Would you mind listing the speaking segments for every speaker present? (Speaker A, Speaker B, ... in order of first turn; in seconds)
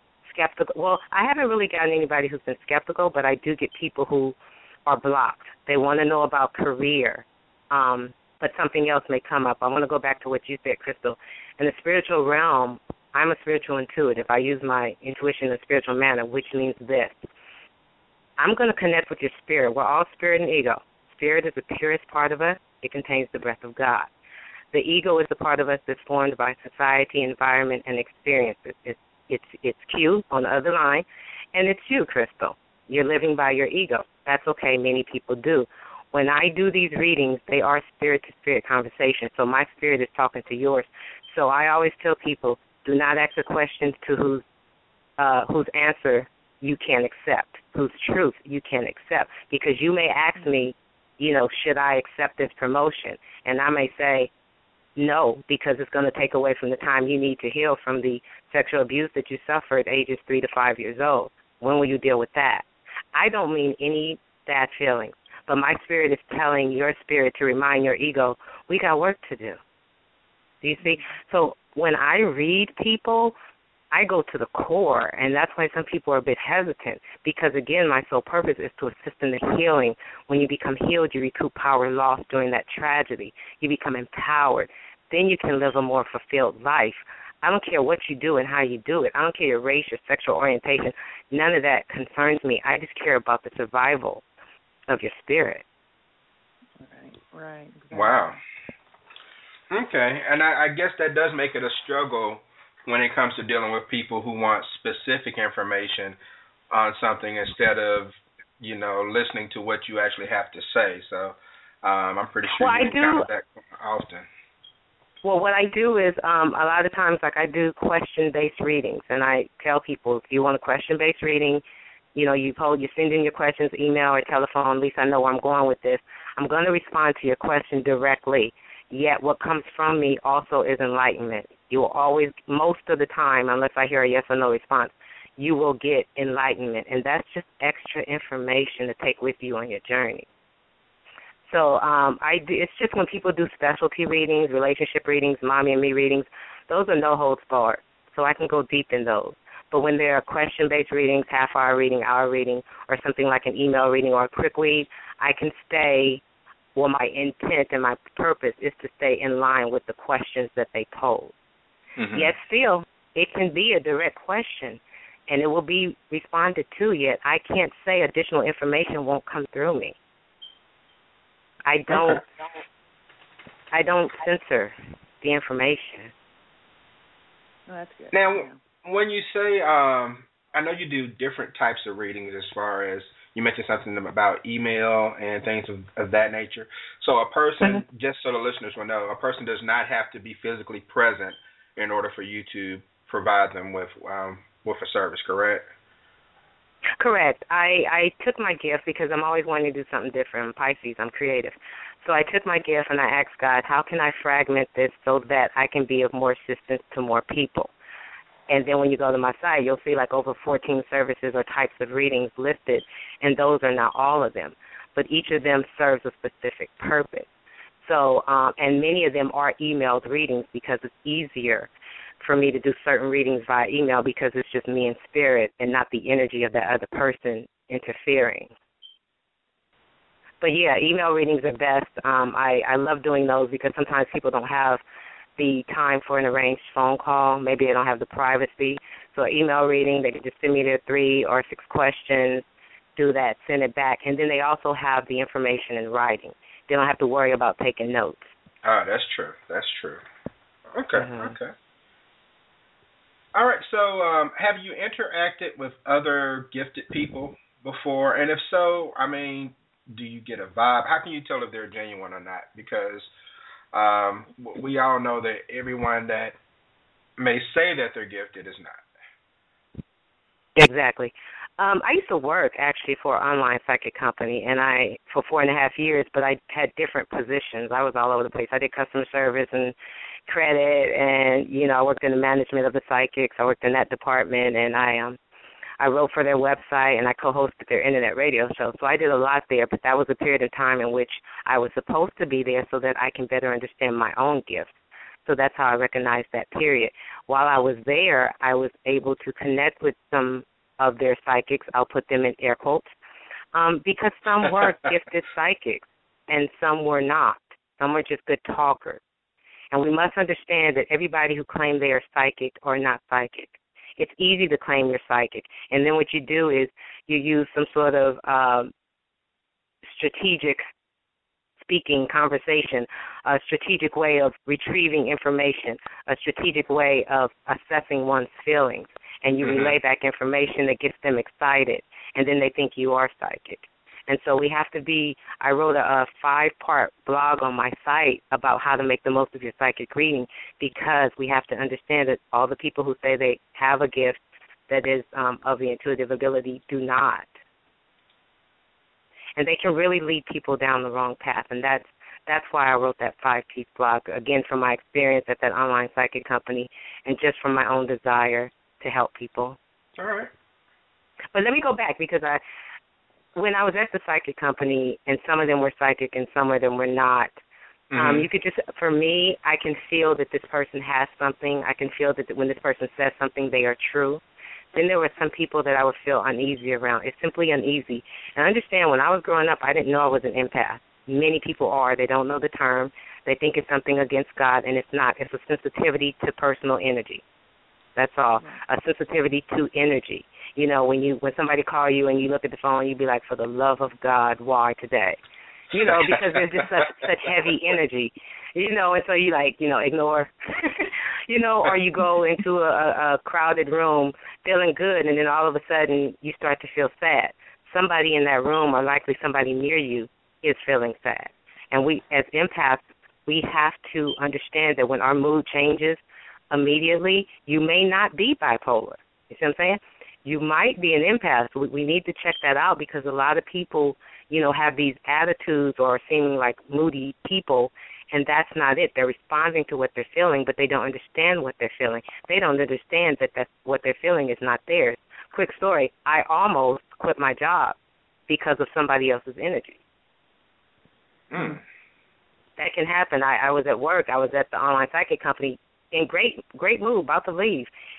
Speaker A: 0.2-4.3, 4.9-17.2, 18.4-24.1, 24.7-44.4, 45.2-54.3, 55.0-69.6, 70.6-73.3, 73.9-94.2, 94.9-95.6, 112.5-113.3, 115.2-121.6, 122.1-140.3, 141.5-156.2, 156.8-161.3, 162.1-169.9, 171.7-172.2, 173.7-176.1, 197.0-207.7, 208.5-217.3, 217.8-221.7, 222.2-228.5, 230.4-234.8, 235.4-242.4, 242.9-248.3, 250.9-251.4, 270.6-279.7, 280.3-285.2, 285.8-294.7, 295.2-302.9, 303.5-309.0, 309.7-318.7, 319.9-320.6, 321.6-347.3, 349.4-359.6, 361.3-362.4, 363.4-367.3, 367.9-374.2, 374.7-387.2, 387.9-395.2, 395.7-437.8, 438.3-439.8, 442.6-447.7
Speaker B: 96.8-98.4, 177.7-178.6
Speaker C: 97.9-98.4, 99.7-106.2, 106.7-114.3, 162.0-162.3, 171.9-172.2, 178.1-195.7, 248.6-250.0, 250.7-251.5, 253.3-263.1, 263.7-266.4, 267.2-268.8, 329.4-329.7, 359.9-360.3, 367.9-368.2, 395.7-396.9, 441.3-441.6